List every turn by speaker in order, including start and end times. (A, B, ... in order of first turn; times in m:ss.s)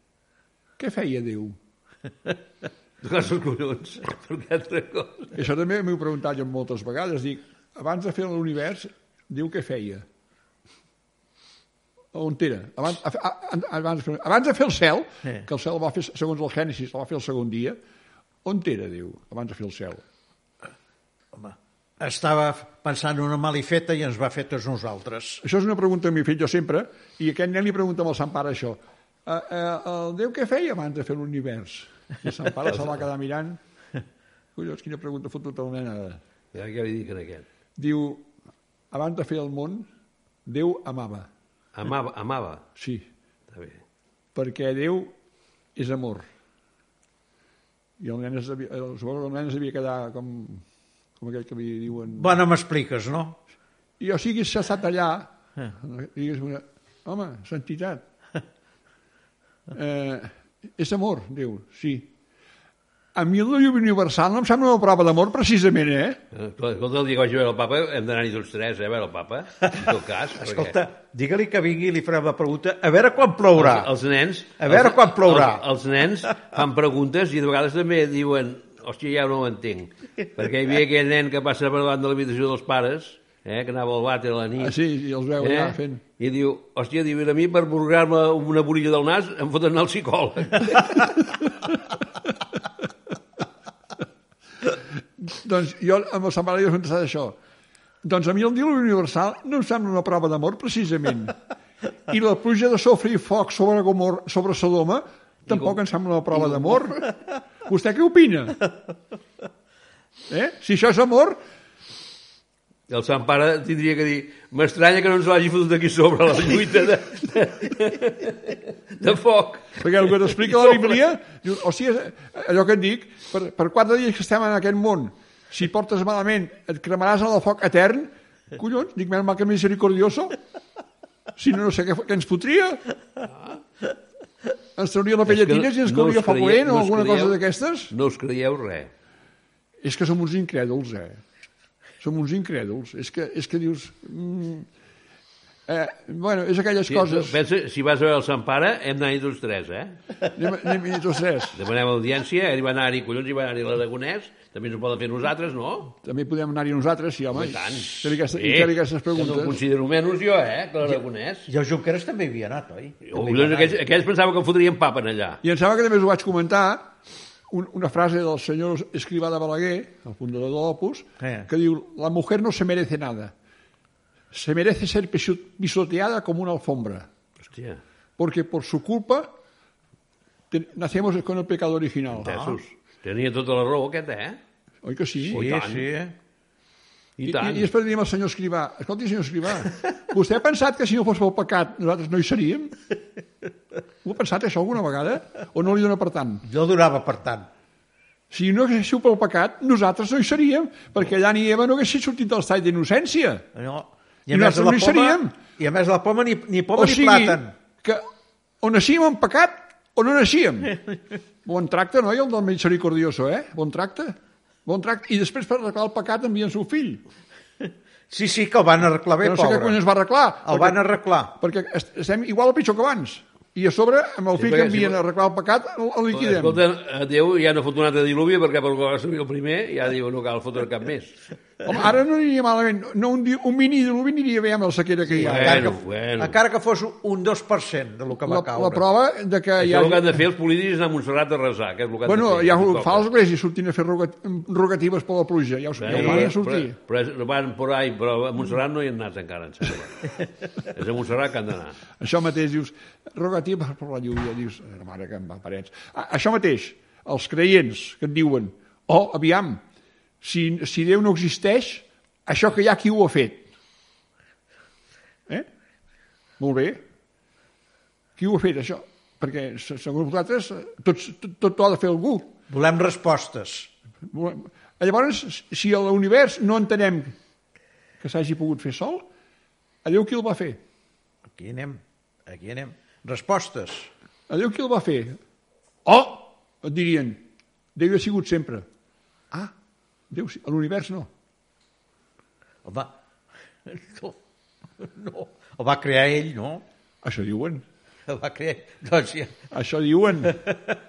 0:00.8-0:01.6 A
0:03.0-0:05.4 B
0:05.4-0:10.0 A
0:12.1-0:17.8 A
0:18.4-0:20.0 A
0:21.3-0:25.4 C
0:25.4-0:33.6 A
0:34.6-0:36.2 A
0:36.5-0:37.4 B
0:37.8-0:38.3 A
0:38.9-0:39.9 A
0:40.5-0:41.3 A
0:41.7-0:42.7 B
0:42.8-0:43.1 A
0:43.5-0:43.8 B
0:44.4-0:45.1 A
0:45.8-0:46.3 A
0:48.0-0:50.6 A
0:51.2-0:52.4 A
0:52.2-0:53.4 C
0:54.0-0:58.0 A
0:59.7-1:02.1 A
1:03.2-1:06.2 A
1:06.3-1:10.8 B
1:09.6-1:13.9 C
1:13.6-1:24.8 B
1:14.6-1:15.6 C
1:24.6-1:26.0 A
1:25.4-1:31.1 B
1:35.2-1:37.4 A
1:38.0-1:41.4 A
1:42.1-1:48.6 A
1:45.5-1:45.8 B
1:50.3-1:51.4 A
1:52.9-1:59.8 B
1:59.8-2:10.4 A
2:11.4-2:12.8 A
2:13.3-2:13.6 B
2:14.8-2:17.9 A
2:15.3-2:17.4 B
2:17.9-2:18.9 B
2:19.8-2:21.2 A
2:22.0-2:24.7 A
2:25.7-2:27.4 A
2:26.9-2:30.0 B
2:30.3-2:31.6 A
2:31.5-2:36.0 B
2:36.0-2:39.6 A
2:37.3-2:41.5 B
2:41.5-2:43.8 C
2:43.1-2:45.4 B
2:45.4-2:46.9 A
2:47.5-2:53.3 A
2:51.2-2:51.5 C
2:54.3-2:57.1 A
2:57.4-2:57.8 B
2:58.2-2:59.3 A
3:00.5-3:02.5 A
3:02.2-3:04.4 B
3:02.2-3:02.6 C
3:04.8-3:05.4 A
3:05.2-3:05.9 B
3:05.3-3:06.2 C
3:07.2-3:07.7 B
3:07.2-3:12.8 A
3:14.0-3:16.4 A
3:16.4-3:17.5 C
3:18.3-3:23.5 A
3:23.6-3:27.5 C
3:24.3-3:25.4 A
3:26.8-3:28.0 A
3:28.6-3:30.8 A
3:31.4-3:37.0 A
3:38.1-3:39.8 C
3:39.2-3:40.8 A
3:40.4-3:41.4 C
3:41.4-3:46.6 A
3:44.4-3:45.0 B
3:46.1-3:51.2 B
3:51.6-3:55.7 A
3:55.1-3:58.9 C
3:55.2-3:56.4 B
3:58.2-4:00.2 A
3:59.6-4:03.1 B
4:02.0-4:06.8 A
4:05.8-4:11.8 B
4:05.9-4:06.3 C
4:12.0-4:19.6 A
4:20.2-4:23.5 A
4:26.4-4:26.8 A
4:28.2-4:32.4 A
4:32.5-4:33.7 C
4:34.1-4:37.2 A
4:38.0-4:39.1 A
4:39.8-4:40.6 A
4:41.3-4:43.9 C
4:44.3-4:45.2 A
4:45.8-4:47.2 A
4:47.8-4:48.6 A
4:50.1-4:51.1 A
4:52.6-4:52.9 C
4:53.7-4:54.2 C
4:54.8-4:56.6 C
4:57.0-4:57.6 A
4:58.1-4:59.4 C
4:59.5-5:00.4 A